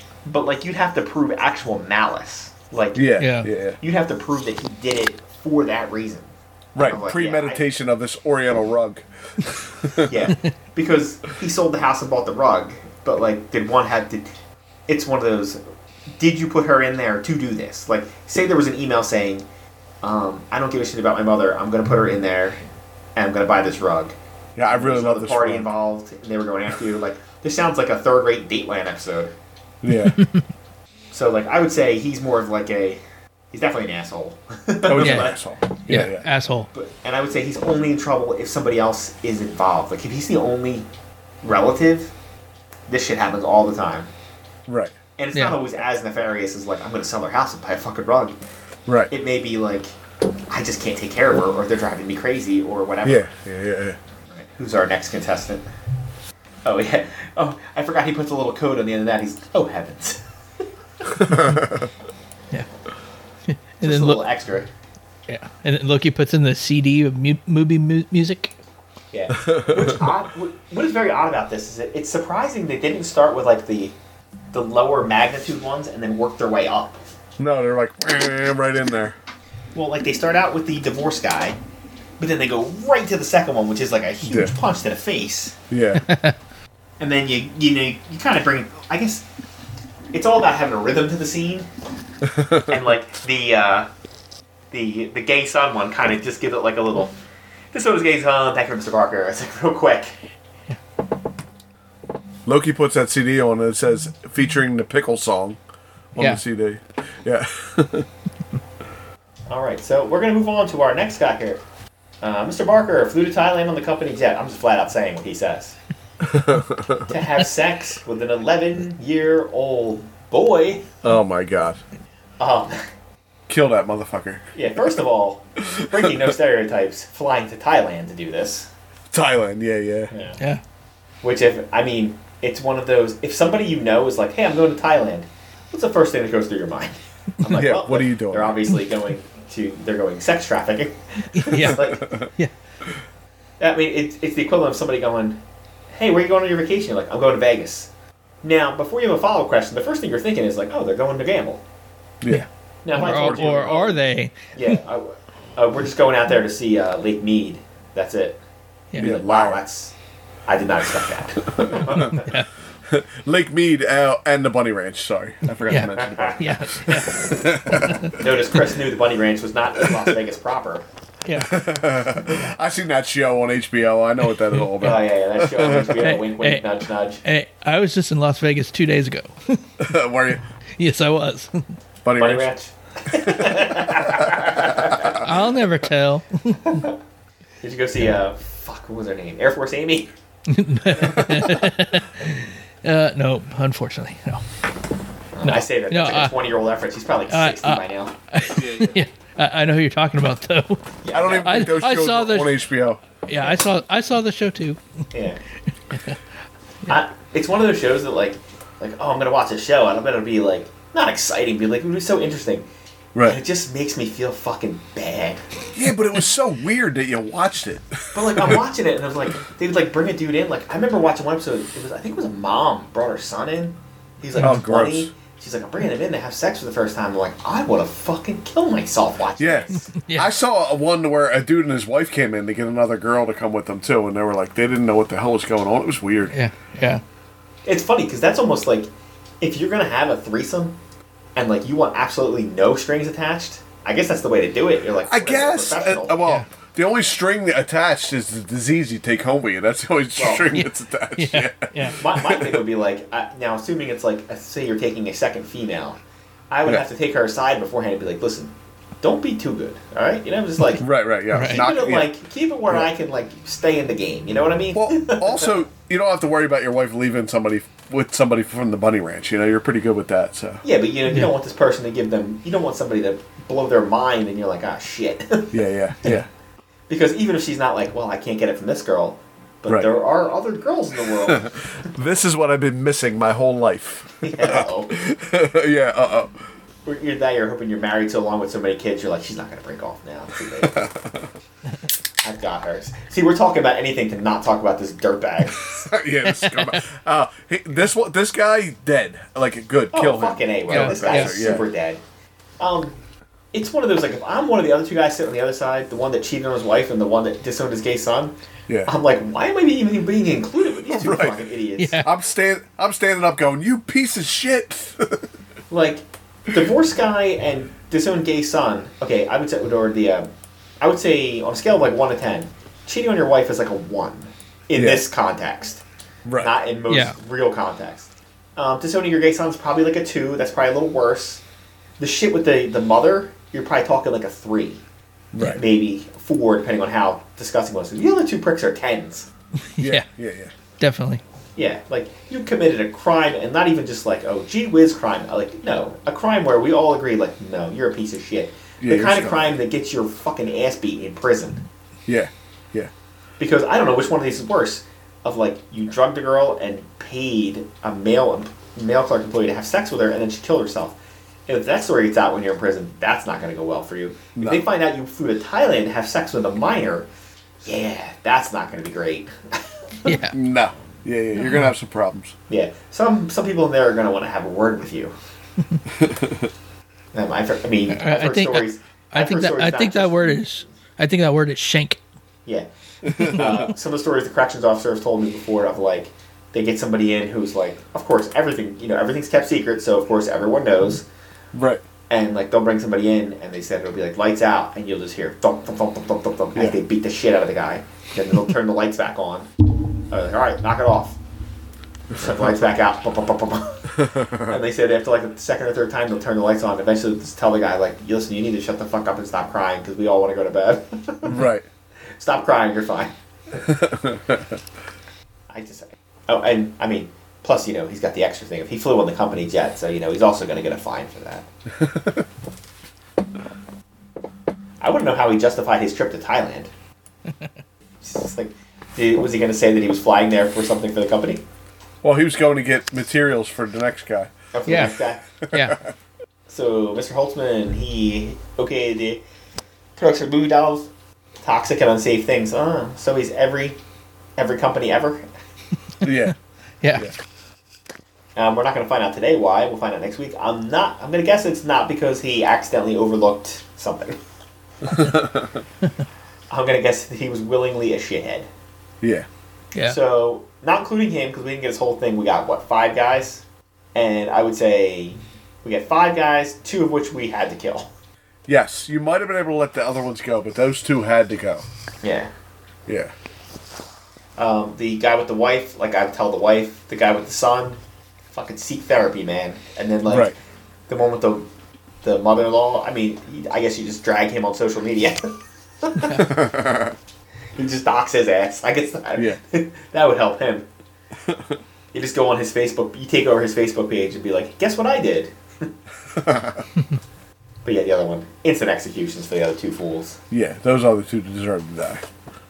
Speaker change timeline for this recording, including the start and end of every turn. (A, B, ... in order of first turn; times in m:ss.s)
0:00.3-0:03.2 A
0:03.0-0:03.8 B
0:03.2-0:03.5 C
0:03.8-0:07.6 A
0:06.8-0:10.3 B
0:10.0-0:14.3 A
0:14.9-0:15.6 A
0:16.2-0:19.5 A
0:20.0-0:22.6 A
0:23.2-0:24.2 A
0:24.6-0:25.7 B
0:24.7-0:29.3 A
0:29.8-0:30.2 B
0:31.1-0:33.0 A
0:33.5-0:35.4 A
0:34.8-0:36.3 B
0:35.0-0:35.3 C
0:35.9-0:36.7 C
0:36.7-0:40.9 A
0:41.4-0:42.1 A
0:42.9-0:44.1 A
0:44.7-0:45.0 B
0:45.2-0:48.4 A
0:48.9-0:49.1 B
0:49.1-0:49.9 A
0:50.5-0:53.2 A
0:53.0-0:54.0 B
0:54.3-0:55.6 A
0:56.6-1:00.2 A
1:01.2-1:01.9 B
1:03.5-1:04.2 C
1:03.8-1:04.7 A
1:05.3-1:08.5 C
1:09.1-1:14.0 A
1:09.4-1:10.1 B
1:14.5-1:17.0 A
1:17.4-1:19.2 B
1:19.8-1:21.6 A
1:22.2-1:25.6 A
1:24.2-1:24.6 B
1:25.7-1:26.1 B
1:26.0-1:26.4 C
1:27.0-1:29.3 A
1:30.1-1:31.7 A
1:32.3-1:32.7 B
1:32.5-1:33.9 A
1:34.7-1:37.1 A
1:37.7-1:40.1 A
1:42.5-1:45.6 B
1:46.2-1:48.1 B
1:49.5-1:51.6 A
1:52.2-1:55.8 A
1:56.2-1:57.1 B
1:57.1-2:01.0 A
2:01.0-2:01.8 B
2:02.4-2:02.9 A
2:03.5-2:04.4 B
2:04.6-2:08.7 A
2:05.8-2:06.0 B
2:09.1-2:10.1 B
2:10.1-2:10.4 A
2:11.2-2:22.2 A
2:17.5-2:18.7 B
2:21.4-2:22.5 C
2:21.5-2:22.3 B
2:23.6-2:25.4 A
2:25.9-2:27.9 A
2:28.4-2:31.6 A
2:32.2-2:32.5 B
2:32.3-2:34.7 C
2:32.8-2:34.0 A
2:33.0-2:33.8 B
2:34.5-2:38.4 A
2:39.0-2:39.9 A
2:39.0-2:39.6 B
2:40.5-2:42.3 A
2:41.6-2:42.2 B
2:42.1-2:42.5 C
2:42.9-2:48.1 B
2:45.7-2:48.1 C
2:46.1-2:46.4 A
2:48.1-2:50.8 A
2:51.3-2:51.5 C
2:51.4-2:56.1 B
2:54.5-2:55.1 C
2:54.8-2:57.2 A
2:56.0-2:59.6 C
2:59.8-3:00.4 B
3:00.8-3:01.6 C
3:02.0-3:02.5 B
3:02.2-3:05.2 A
3:03.1-3:05.3 B
3:05.1-3:06.9 C
3:06.7-3:06.9 A
3:07.6-3:10.1 A
3:10.5-3:14.4 C
3:11.1-3:11.6 B
3:15.4-3:18.2 A
3:15.4-3:16.3 C
3:17.3-3:22.6 C
3:18.5-3:19.0 B
3:21.0-3:21.7 A
3:21.1-3:23.0 B
3:23.3-3:24.8 C
3:25.1-3:25.4 A
3:25.9-3:26.2 C
3:26.9-3:32.7 A
3:33.2-3:33.4 B
3:33.2-3:35.5 A
3:35.7-3:38.6 B
3:38.1-3:49.9 A
3:44.4-3:45.1 B
3:49.4-3:56.4 B
3:50.0-3:50.3 C
3:56.3-3:57.0 C
3:57.7-3:58.9 A
3:59.4-4:00.8 A
4:01.4-4:06.2 A
4:05.1-4:12.6 B
4:10.2-4:10.5 A
4:10.5-4:12.1 C
4:12.0-4:16.0 A
4:16.5-4:20.9 A
4:20.8-4:22.1 B
4:21.3-4:21.6 C
4:21.4-4:25.5 A
4:24.7-4:30.6 B
4:30.6-4:36.2 A
4:35.5-4:36.3 B
4:36.9-4:41.5 A
4:41.1-4:46.4 B
4:44.2-4:44.9 A
4:46.9-4:50.9 A
4:50.6-4:51.3 B
4:52.2-4:55.9 A
4:55.6-5:01.7 B
4:56.3-4:56.8 C
4:59.9-5:02.0 A
5:00.7-5:01.6 C
5:02.6-5:03.0 A
5:03.5-5:08.3 A
5:08.9-5:12.0 A
5:10.8-5:15.3 B
5:11.8-5:12.1 C
5:15.7-5:20.3 A
5:20.8-5:25.8 A
5:24.7-5:25.1 B
5:26.2-5:26.5 B
5:26.4-5:31.4 A
5:26.9-5:27.2 C
5:32.0-5:34.8 A
5:35.3-5:35.6 B
5:35.4-5:39.3 A
5:39.7-5:40.1 C
5:39.8-5:40.5 B
5:40.8-5:41.2 C
5:41.6-5:51.6 A
5:48.8-5:49.5 B
5:52.1-5:52.9 B
5:53.4-6:07.1 A
6:04.4-6:04.6 B
6:07.6-6:10.1 A
6:10.0-6:10.4 C
6:10.3-6:12.4 B
6:11.4-6:11.7 C
6:12.5-6:15.1 A
6:16.0-6:16.5 B
6:17.1-6:20.4 A
6:17.9-6:22.0 C
6:22.5-6:31.1 A
6:23.1-6:23.7 B
6:31.5-6:31.8 B
6:32.1-6:39.5 A
6:40.1-6:41.2 A
6:42.1-6:51.5 A
6:44.0-6:44.6 B
6:51.2-6:51.7 B
6:52.2-6:53.1 A
6:53.7-6:54.6 B
6:55.5-7:01.5 A
7:01.8-7:02.2 B
7:04.8-7:06.7 A
7:08.0-7:11.4 A
7:12.0-7:14.8 B
7:14.5-7:15.2 A
7:14.7-7:15.8 C
7:15.4-7:15.9 B
7:16.5-7:19.2 A
7:20.0-7:20.9 A
7:21.4-7:23.8 A
7:24.4-7:25.3 A
7:26.0-7:26.4 B
7:26.0-7:27.1 C
7:28.4-7:34.2 A
7:34.9-7:35.6 B
7:36.5-7:38.5 A
7:39.0-7:39.3 B
7:39.8-7:43.4 A
7:44.0-7:47.9 A
7:48.5-7:51.6 B
7:52.0-7:52.3 A
7:52.9-7:53.1 B
7:54.4-7:57.8 A
7:58.3-8:00.3 A
8:00.1-8:00.4 B
8:00.9-8:01.5 A
8:02.0-8:06.4 A
8:06.2-8:07.0 B
8:07.6-8:10.7 A
8:11.2-8:11.6 B
8:11.9-8:15.7 A
8:16.1-8:16.7 B
8:17.6-8:20.2 A
8:20.3-8:22.1 B